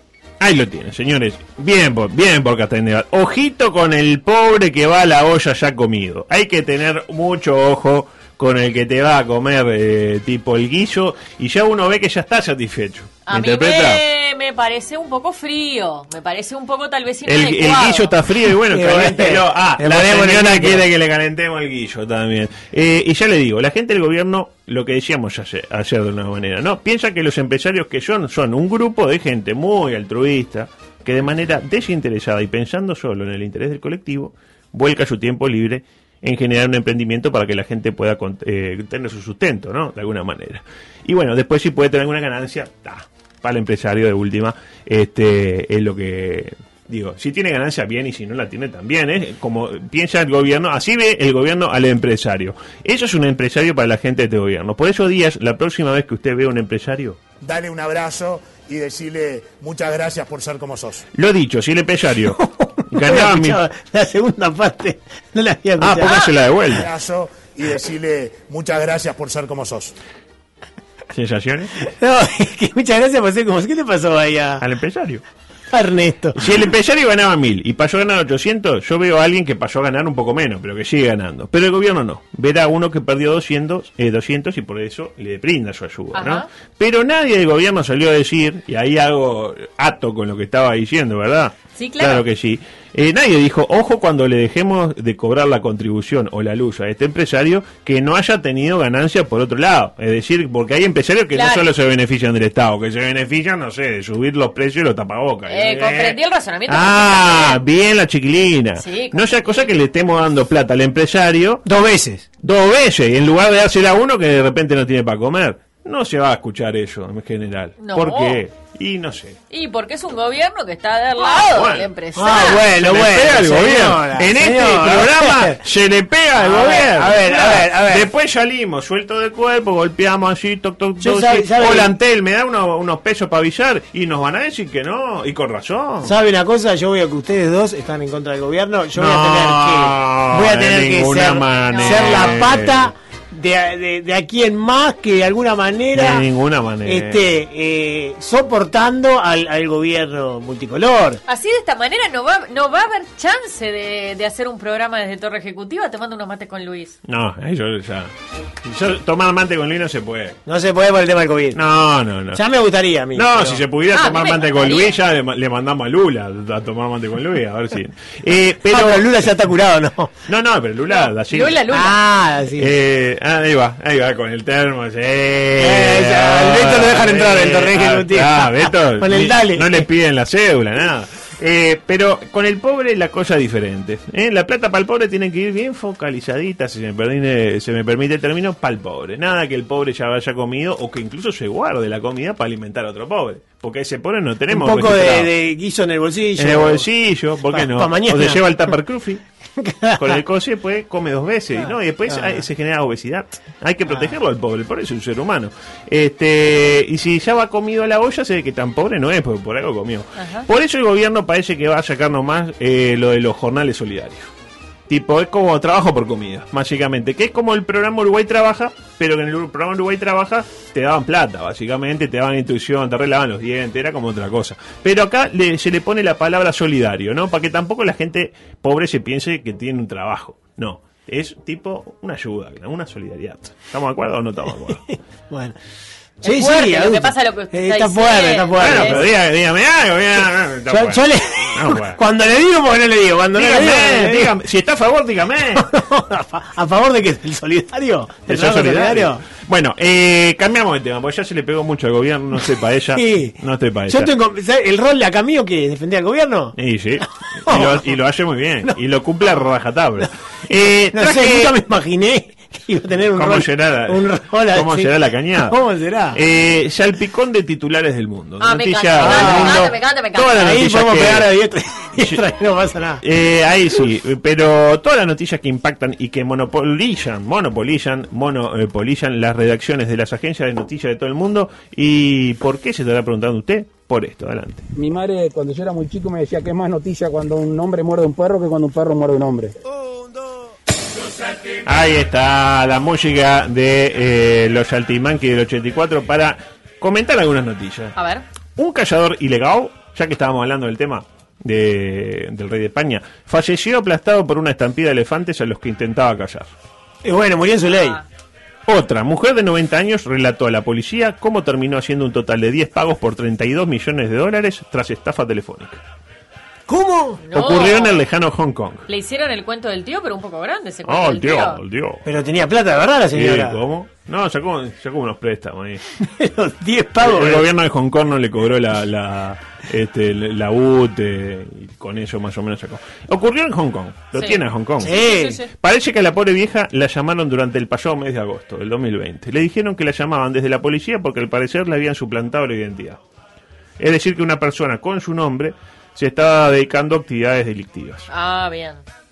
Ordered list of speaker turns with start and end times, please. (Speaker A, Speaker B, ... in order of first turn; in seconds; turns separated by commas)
Speaker A: 0.4-14.0, Speaker B: 13.3-18.1, Speaker A: 17.3-57.2, Speaker C: 18.7-20.9, Speaker D: 57.4-61.0, Speaker A: 61.1-63.6, Speaker C: 62.4-66.3, Speaker A: 65.8-66.9, Speaker D: 66.7-70.0, Speaker A: 71.1-71.7, Speaker C: 71.8-74.6, Speaker A: 74.6-75.2, Speaker C: 75.7-76.4, Speaker A: 76.4-111.6, Speaker B: 86.1-86.5, Speaker B: 91.8-92.2, Speaker B: 101.3-101.7, Speaker B: 105.5-107.6, Speaker B: 108.8-109.7, Speaker C: 111.7-112.3, Speaker A: 112.4-119.4, Speaker B: 117.8-118.4, Speaker B: 119.5-122.6, Speaker A: 121.3-136.2, Speaker C: 122.2-125.6, Speaker C: 126.4-128.1, Speaker C: 131.0-131.9, Speaker C: 136.0-146.3, Speaker A: 138.9-142.9, Speaker B: 141.7-142.4, Speaker A: 145.9-147.2, Speaker C: 146.8-151.2, Speaker B: 151.3-157.0, Speaker A: 157.1-158.1, Speaker A: 158.7-160.4, Speaker C: 160.5-161.6, Speaker A: 161.6-162.4, Speaker C: 162.3-163.6, Speaker A: 163.1-169.1, Speaker B: 163.9-164.9, Speaker C: 168.7-170.1, Speaker A: 170.3-171.6, Speaker B: 170.9-172.0, Speaker C: 171.7-172.7, Speaker A: 172.6-195.3, Speaker C: 175.6-179.9, Speaker C: 194.5-196.9, Speaker A: 196.4-199.2, Speaker C: 197.5-198.5, Speaker C: 199.6-200.2, Speaker A: 200.0-214.3, Speaker C: 201.6-202.5, Speaker B: 210.2-210.5, Speaker A: 214.9-234.8, Speaker C: 235.3-235.6, Speaker C: 236.2-239.1, Speaker B: 236.2-239.0, Speaker A: 238.6-242.0, Speaker C: 240.7-244.3, Speaker A: 243.3-245.7, Speaker C: 245.6-249.2, Speaker A: 248.3-254.1, Speaker C: 252.9-253.4, Speaker C: 253.9-256.6, Speaker A: 256.6-261.5, Speaker C: 257.4-257.9, Speaker C: 260.9-266.2, Speaker A: 263.1-265.6, Speaker A: 266.1-271.3, Speaker B: 268.4-270.4, Speaker C: 269.0-269.7, Speaker C: 270.3-273.0, Speaker A: 273.0-284.6, Speaker E: 284.8-289.6, Speaker A: 291.6-297.9, Speaker B: 298.0-298.2, Speaker A: 298.6-306.5, Speaker C: 307.0-308.0, Speaker B: 307.8-308.0, Speaker A: 308.7-315.8, Speaker C: 316.7-317.2, Speaker B: 317.2-318.0, Speaker A: 317.3-318.9, Speaker B: 318.9-321.6, Speaker A: 320.9-322.1, Speaker C: 322.1-323.6, Speaker A: 323.1-325.8, Speaker C: 326.0-327.5, Speaker A: 327.0-335.0, Speaker B: 334.1-335.5, Speaker C: 334.8-335.4, Speaker A: 335.5-343.0, Speaker A: 343.8-348.1, Speaker B: 348.1-348.8